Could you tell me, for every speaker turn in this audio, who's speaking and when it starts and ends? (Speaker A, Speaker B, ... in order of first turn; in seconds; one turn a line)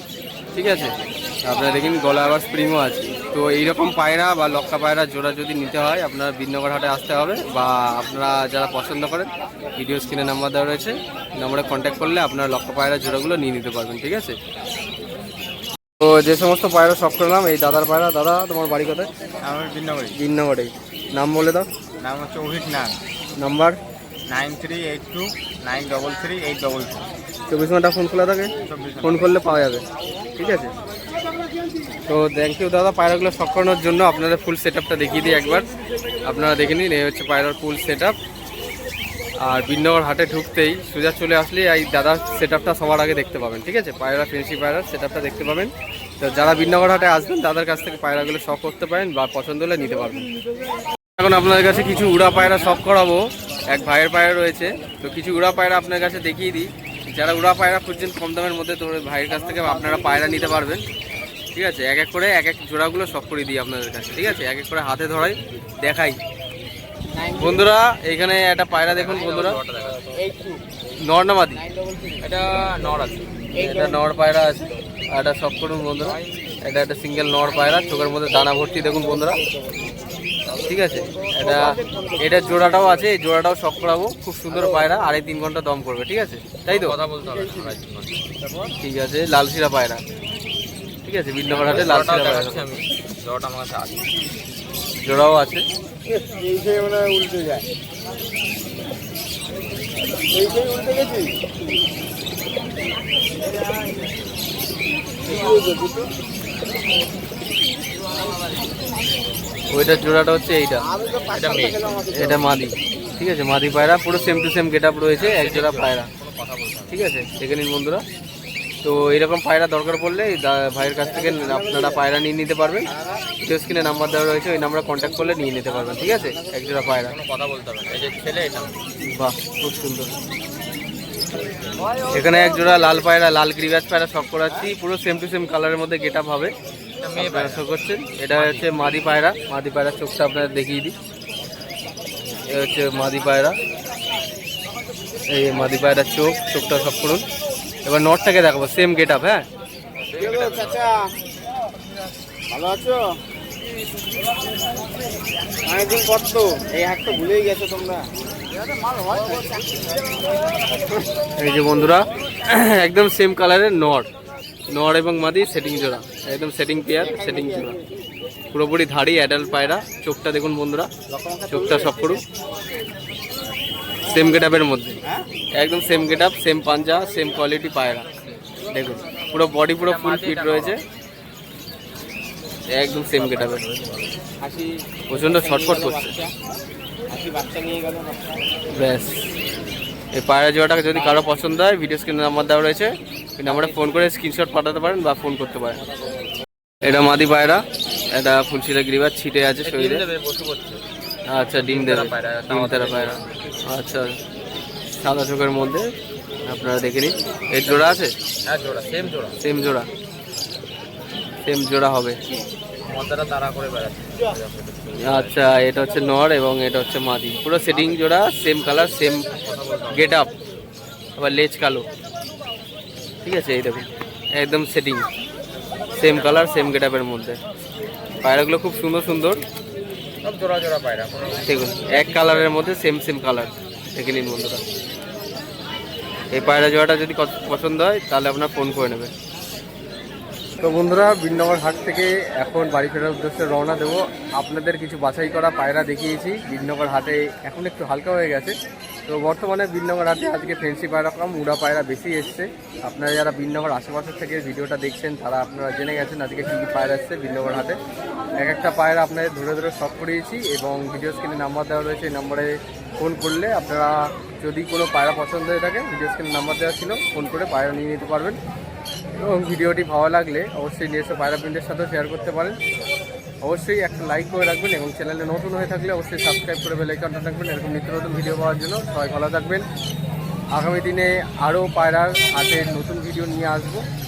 Speaker A: 0.5-14.4
Speaker A: 16.0-19.1
Speaker B: 19.5-20.1
Speaker C: 19.5-20.0
Speaker A: 20.1-21.7
Speaker B: 22.0-22.9
Speaker C: 22.1-22.9
Speaker A: 23.4-23.8
Speaker B: 24.3-27.1
Speaker C: 24.4-25.3
Speaker C: 26.3-27.0
Speaker A: 27.5-29.9
Speaker B: 28.7-29.2
Speaker A: 30.4-30.7
Speaker A: 32.1-35.7
Speaker A: 36.2-38.2
Speaker A: 39.4-50.3
Speaker A: 51.2-60.9
Speaker A: 61.5-66.2
Speaker C: 67.2-67.7
Speaker A: 67.3-69.6
Speaker B: 68.7-70.2
Speaker C: 70.1-70.6
Speaker A: 71.0-71.6
Speaker C: 71.6-72.8
Speaker B: 72.2-73.2
Speaker A: 73.5-79.4
Speaker C: 73.6-74.0
Speaker C: 79.4-79.9
Speaker A: 80.7-87.0
Speaker C: 81.2-82.8
Speaker B: 86.7-88.3
Speaker C: 87.3-87.7
Speaker A: 88.8-90.0
Speaker A: 91.1-92.7
Speaker B: 91.5-94.1
Speaker A: 95.0-95.7
Speaker C: 96.1-97.7
Speaker C: 100.3-101.4
Speaker C: 105.2-106.1
Speaker A: 109.7-110.9
Speaker C: 110.9-112.4
Speaker B: 111.2-112.1
Speaker A: 112.1-116.1
Speaker B: 115.2-116.9
Speaker A: 116.9-118.0
Speaker A: 118.8-122.9
Speaker C: 121.0-122.0
Speaker C: 123.0-123.2
Speaker A: 123.4-127.1
Speaker C: 125.9-126.7
Speaker B: 127.0-128.8
Speaker A: 129.0-130.1
Speaker C: 131.8-132.3
Speaker A: 132.1-136.5
Speaker B: 137.0-137.7
Speaker A: 137.2-140.9
Speaker B: 138.3-139.0
Speaker A: 142.4-143.6
Speaker A: 145.3-147.2
Speaker A: 147.8-149.4
Speaker B: 150.0-150.9
Speaker C: 150.2-151.1
Speaker C: 152.5-153.2
Speaker C: 155.7-159.7
Speaker A: 161.4-164.1
Speaker A: 164.7-167.8
Speaker C: 166.9-167.9
Speaker A: 168.5-170.9
Speaker C: 171.1-172.0
Speaker A: 171.5-172.2
Speaker A: 174.0-175.0
Speaker A: 175.6-178.1
Speaker A: 178.7-180.8
Speaker B: 179.8-180.8
Speaker A: 182.7-183.6
Speaker B: 183.1-184.1
Speaker C: 184.4-186.3
Speaker A: 185.1-186.2
Speaker C: 187.1-188.4
Speaker A: 188.7-189.3
Speaker A: 190.1-195.8
Speaker A: 196.8-200.1
Speaker B: 199.6-200.8
Speaker A: 201.3-204.2
Speaker B: 201.6-203.3
Speaker A: 204.9-205.9
Speaker A: 206.5-208.1
Speaker B: 208.4-209.4
Speaker A: 209.4-209.9
Speaker A: 211.4-212.2
Speaker B: 212.8-215.4
Speaker A: 215.0-219.3
Speaker B: 219.4-220.2
Speaker A: 219.9-220.3
Speaker A: 221.2-221.9
Speaker A: 223.2-225.1
Speaker B: 225.9-226.5
Speaker A: 225.9-227.4
Speaker A: 228.2-229.4
Speaker B: 230.2-232.5
Speaker A: 231.4-234.6
Speaker A: 236.3-239.1
Speaker A: 240.6-257.8
Speaker A: 258.4-268.4
Speaker A: 269.2-272.6
Speaker A: 273.4-279.7
Speaker A: 280.5-283.9